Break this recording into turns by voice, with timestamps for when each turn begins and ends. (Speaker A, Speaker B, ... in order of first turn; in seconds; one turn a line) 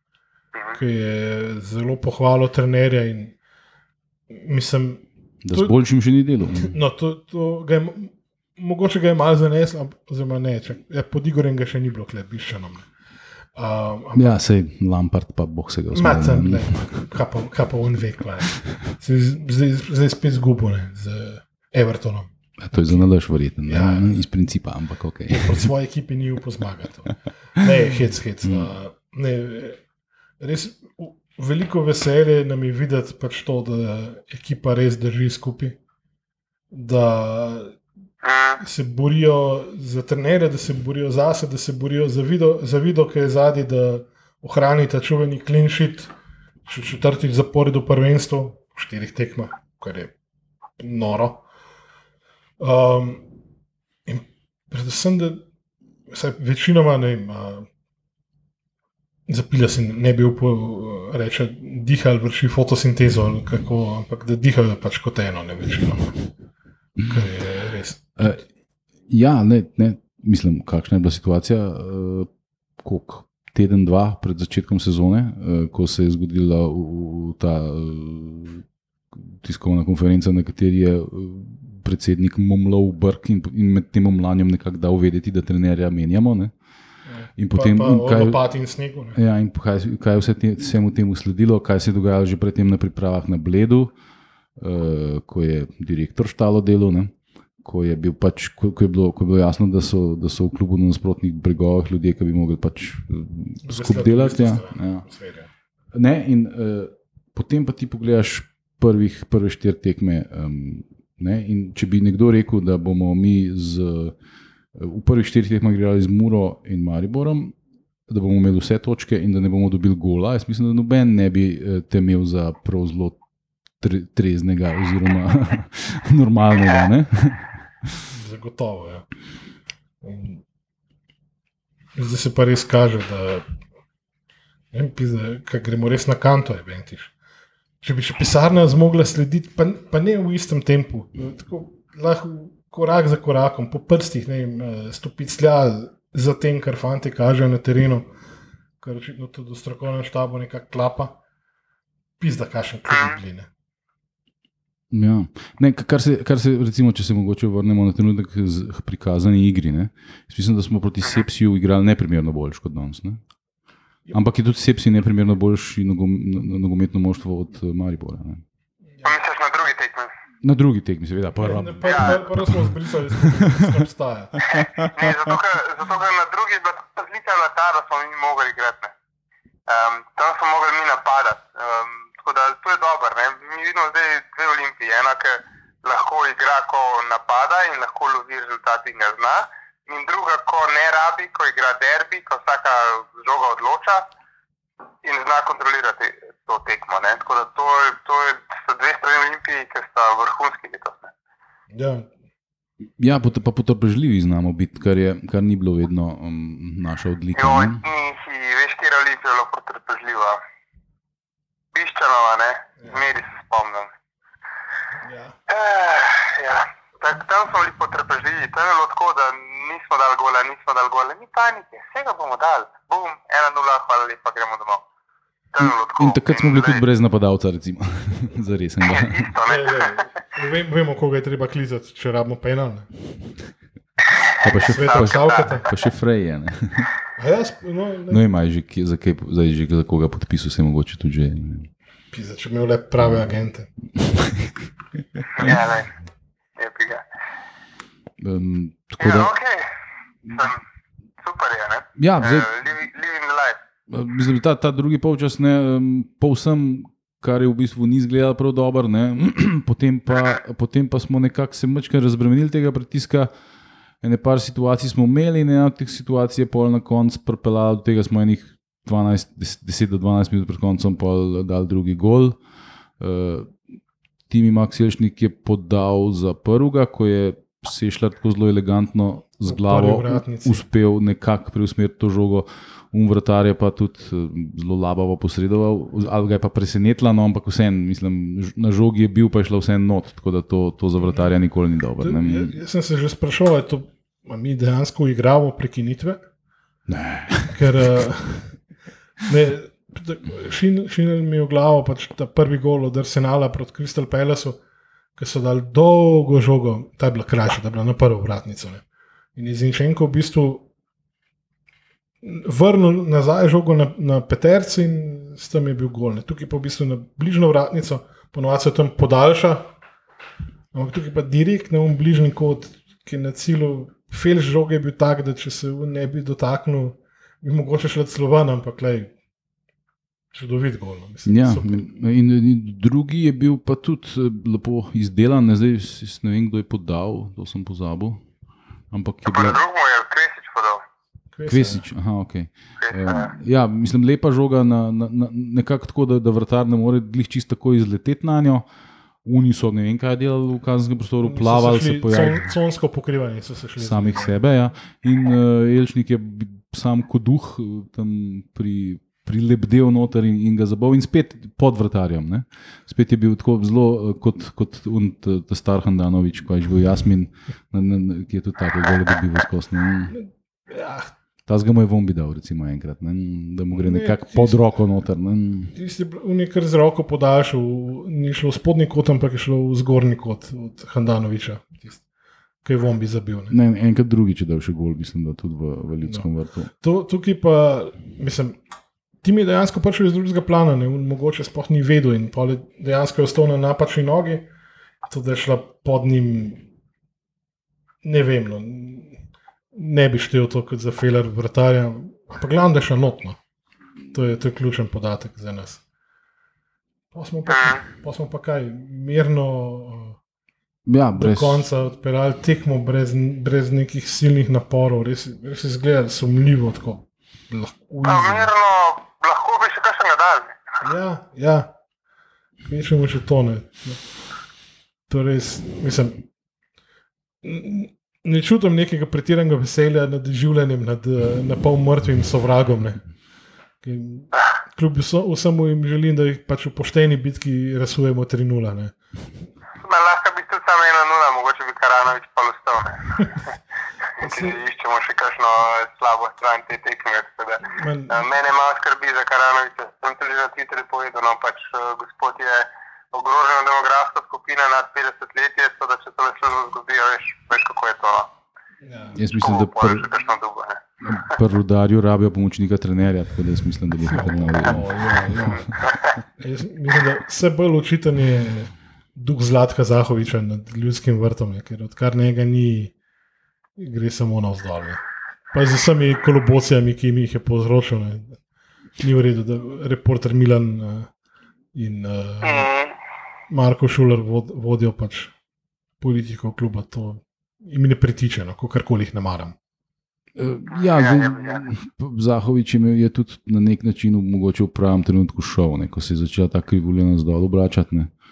Speaker A: 0.7-3.4
Speaker A: 4.3-5.7
Speaker B: 5.4-6.8
Speaker A: 6.5-12.9
Speaker A: 13.6-14.4
Speaker B: 14.2-16.9
Speaker A: 15.9-23.0
Speaker B: 22.6-25.7
Speaker A: 23.7-24.1
Speaker A: 25.3-29.8
Speaker A: 30.4-35.8
Speaker A: 36.7-37.8
Speaker C: 38.2-38.6
Speaker A: 38.6-46.1
Speaker A: 46.6-50.1
Speaker A: 50.8-51.4
Speaker A: 52.6-53.2
Speaker A: 54.1-55.4
Speaker A: 56.1-57.7
Speaker A: 59.3-66.2
Speaker A: 67.0-68.4
Speaker B: 69.1-72.3
Speaker B: 72.8-78.6
Speaker B: 79.3-86.5
Speaker A: 87.1-89.2
Speaker B: 87.4-88.4
Speaker B: 89.1-93.9
Speaker B: 94.6-97.1
Speaker B: 97.6-105.1
Speaker A: 103.6-105.5
Speaker B: 105.9-114.1
Speaker B: 114.7-117.6
Speaker B: 118.1-123.2
Speaker B: 123.8-127.6
Speaker A: 128.1-129.1
Speaker A: 130.0-130.4
Speaker A: 131.9-133.4
Speaker A: 134.7-137.1
Speaker A: 137.8-148.1
Speaker A: 148.8-151.2
Speaker A: 152.2-153.5
Speaker C: 152.9-153.2
Speaker B: 154.9-163.2
Speaker B: 164.1-168.4
Speaker C: 169.0-170.1
Speaker B: 170.4-172.7
Speaker A: 171.4-174.4
Speaker C: 171.8-172.2
Speaker C: 174.5-178.9
Speaker B: 174.6-175.1
Speaker C: 179.7-194.1
Speaker C: 195.0-201.1
Speaker A: 201.7-202.1
Speaker B: 203.0-207.8
Speaker C: 207.4-210.4
Speaker C: 211.7-213.9
Speaker A: 215.0-215.4
Speaker C: 215.5-224.8
Speaker C: 225.5-226.8
Speaker B: 225.6-229.3
Speaker C: 228.8-230.1
Speaker A: 229.5-232.9
Speaker C: 234.4-235.7
Speaker B: 234.4-236.9
Speaker A: 234.6-235.7
Speaker A: 237.2-238.2
Speaker B: 238.1-241.7
Speaker A: 242.1-243.7
Speaker B: 243.9-244.5
Speaker C: 245.4-245.9
Speaker C: 246.6-247.0
Speaker B: 248.2-249.3
Speaker C: 249.0-249.7
Speaker C: 250.2-250.6
Speaker C: 251.2-253.6
Speaker B: 252.0-252.5
Speaker B: 253.9-263.3
Speaker C: 260.1-260.4
Speaker B: 264.0-272.4
Speaker B: 273.0-273.6
Speaker B: 274.3-292.6
Speaker A: 279.4-280.6
Speaker A: 292.0-296.2
Speaker B: 296.9-298.0
Speaker A: 297.5-298.5
Speaker A: 299.3-304.6
Speaker A: 305.1-308.8
Speaker A: 309.4-310.7
Speaker A: 312.2-319.7
Speaker A: 320.7-329.1
Speaker A: 330.3-331.8
Speaker B: 331.2-338.2
Speaker B: 338.9-339.6
Speaker C: 339.2-340.8
Speaker A: 341.3-341.8
Speaker B: 341.5-348.6
Speaker C: 342.8-343.3
Speaker B: 349.2-352.6
Speaker A: 351.2-354.4
Speaker B: 353.8-370.1
Speaker A: 370.1-371.1
Speaker B: 371.4-375.7
Speaker A: 373.7-374.8
Speaker A: 375.7-382.0
Speaker A: 382.6-383.6
Speaker B: 383.5-386.7
Speaker A: 386.8-388.6
Speaker A: 389.2-394.5
Speaker A: 395.1-396.6
Speaker A: 398.0-399.2
Speaker A: 399.7-403.4
Speaker A: 404.1-405.8
Speaker A: 407.1-410.2
Speaker C: 407.5-407.8
Speaker B: 410.9-411.6
Speaker A: 411.1-418.5
Speaker C: 418.1-420.6
Speaker A: 420.8-421.7
Speaker A: 422.6-424.0
Speaker A: 425.1-426.2
Speaker A: 427.4-433.0
Speaker A: 433.8-438.9
Speaker C: 439.8-443.5
Speaker C: 444.2-458.3
Speaker A: 444.2-444.6
Speaker A: 447.6-448.2
Speaker A: 458.9-459.2
Speaker B: 459.1-460.1
Speaker C: 459.3-460.8
Speaker B: 461.0-465.7
Speaker A: 464.1-465.8
Speaker A: 466.4-472.9
Speaker A: 473.8-478.4
Speaker A: 479.0-481.1
Speaker A: 481.7-482.7
Speaker C: 482.4-482.9
Speaker A: 483.5-485.3
Speaker A: 486.0-489.6
Speaker B: 490.4-498.1
Speaker C: 490.7-491.6